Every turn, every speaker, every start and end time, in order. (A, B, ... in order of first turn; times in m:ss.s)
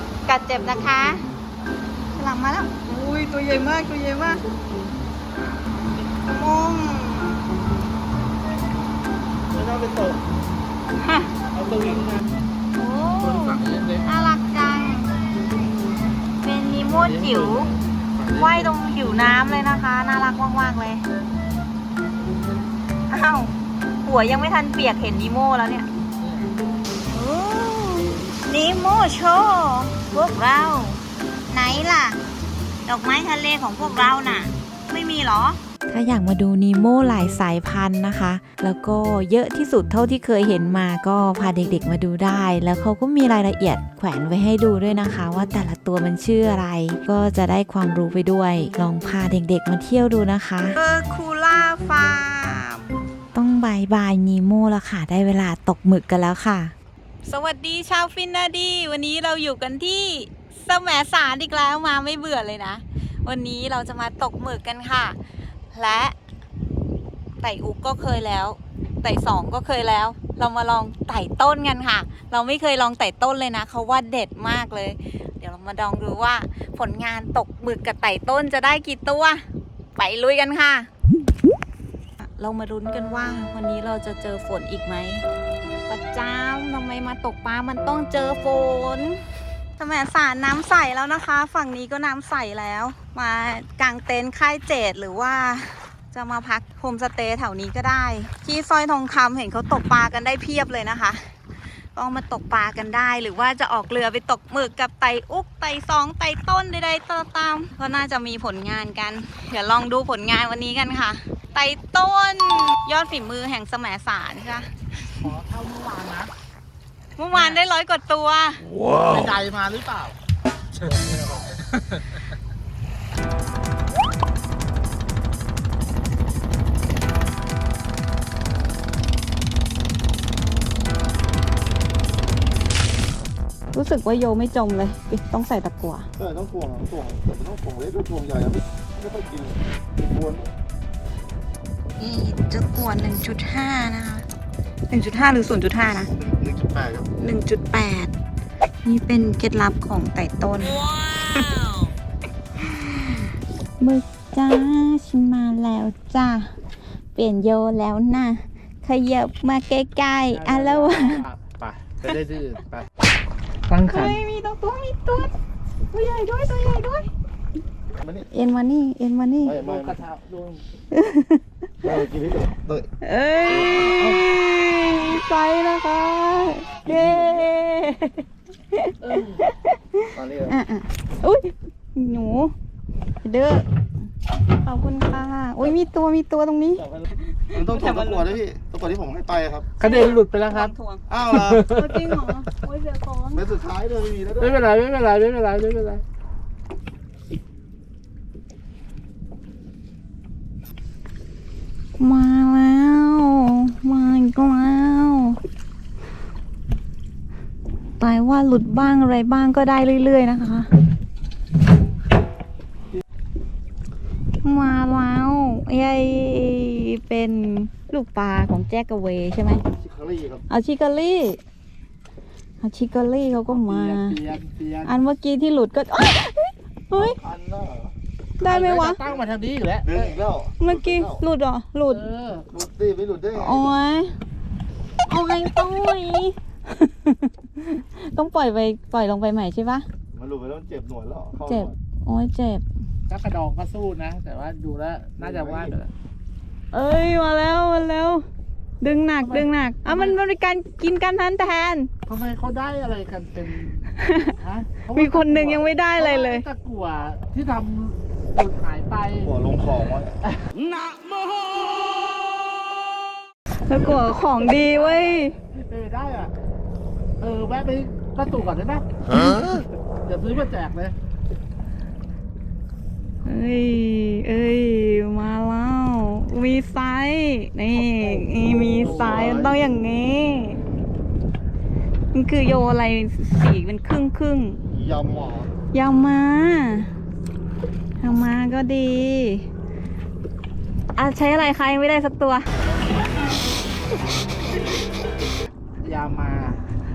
0:00.3-0:01.2 A
0:02.1-0:04.4 A
0:06.3-0:07.4 A
0:09.6-0:10.1 B
0:11.0-0:11.3 A
0:11.5-0:12.2 B
0:12.7-0:15.2 A
0:13.2-0:14.0 B
0:16.4-0:17.7 A
0:17.0-0:18.7 B
0:18.3-0:21.0 A
0:23.1-0:25.9 A
0:26.2-0:26.5 B
0:27.1-0:32.2 A
0:32.8-0:35.6 A
0:35.9-0:50.8 C
0:50.7-0:53.0 A
0:53.3-0:56.7 C
0:57.2-1:05.2 A
1:05.7-1:06.1 A
1:07.4-1:19.4 A
1:20.0-1:20.9 A
1:22.2-1:25.2 A
1:25.9-1:29.2 A
1:29.8-1:41.2 A
1:41.9-1:55.0 A
1:55.1-1:56.3 B
1:57.2-1:58.7 A
1:57.3-1:57.6 B
1:58.9-2:00.2 B
2:00.8-2:01.4 B
2:13.7-2:16.1 A
2:16.2-2:20.5 D
2:22.0-2:24.2 A
2:24.9-2:26.1 A
2:26.2-2:27.1 D
2:27.2-2:28.1 A
2:28.8-2:31.8 A
2:33.8-2:36.5 A
2:37.2-2:41.2 A
2:40.3-2:42.9 B
2:43.7-2:44.2 B
2:43.8-2:45.3 A
2:45.9-2:47.1 A
2:48.0-2:48.3 D
2:48.3-2:49.6 A
2:49.4-2:50.6 B
2:49.5-2:50.0 D
2:50.9-2:51.4 A
2:51.8-2:52.9 D
2:53.0-3:02.5 A
2:53.5-2:54.2 D
2:56.8-2:57.5 D
2:59.0-2:59.4 B
3:00.1-3:00.6 D
3:03.2-3:03.6 A
3:04.5-3:06.9 A
3:07.4-3:08.4 A
3:07.5-3:09.7 D
3:09.8-3:10.7 B
3:09.8-3:11.0 A
3:11.1-3:11.7 D
3:11.3-3:12.2 B
3:11.7-3:13.5 A
3:13.3-3:14.6 D
3:14.4-3:16.0 B
3:22.0-3:25.4 A
3:28.0-3:30.7 A
3:34.4-3:39.6 A
3:39.7-3:40.4 D
3:40.5-3:41.4 A
3:42.6-3:44.2 A
3:43.5-3:45.0 B
3:44.8-3:47.2 A
3:47.0-3:47.9 D
3:48.4-3:49.0 A
3:48.4-3:50.2 B
3:49.8-3:51.2 D
3:50.6-3:52.0 A
3:51.9-3:52.5 B
3:52.5-3:53.7 D
3:53.3-3:54.2 A
3:55.1-3:59.8 A
4:00.1-4:01.7 D
4:01.4-4:02.6 A
4:03.1-4:05.9 B
4:05.2-4:05.7 D
4:06.7-4:08.2 A
4:08.8-4:11.9 A
4:09.1-4:10.2 B
4:12.0-4:19.3 B
4:14.0-4:14.3 A
4:14.9-4:16.4 A
4:19.2-4:20.2 D
4:23.7-4:25.4 A
4:24.5-4:26.3 B
4:27.2-4:30.9 B
4:33.2-4:40.6 A
4:38.6-4:39.6 D
4:38.8-4:39.2 B
4:42.1-4:44.6 A
4:44.7-4:45.5 D
4:45.7-4:46.9 A
4:48.0-4:49.5 A
4:51.0-4:52.5 A
4:55.8-4:56.6 B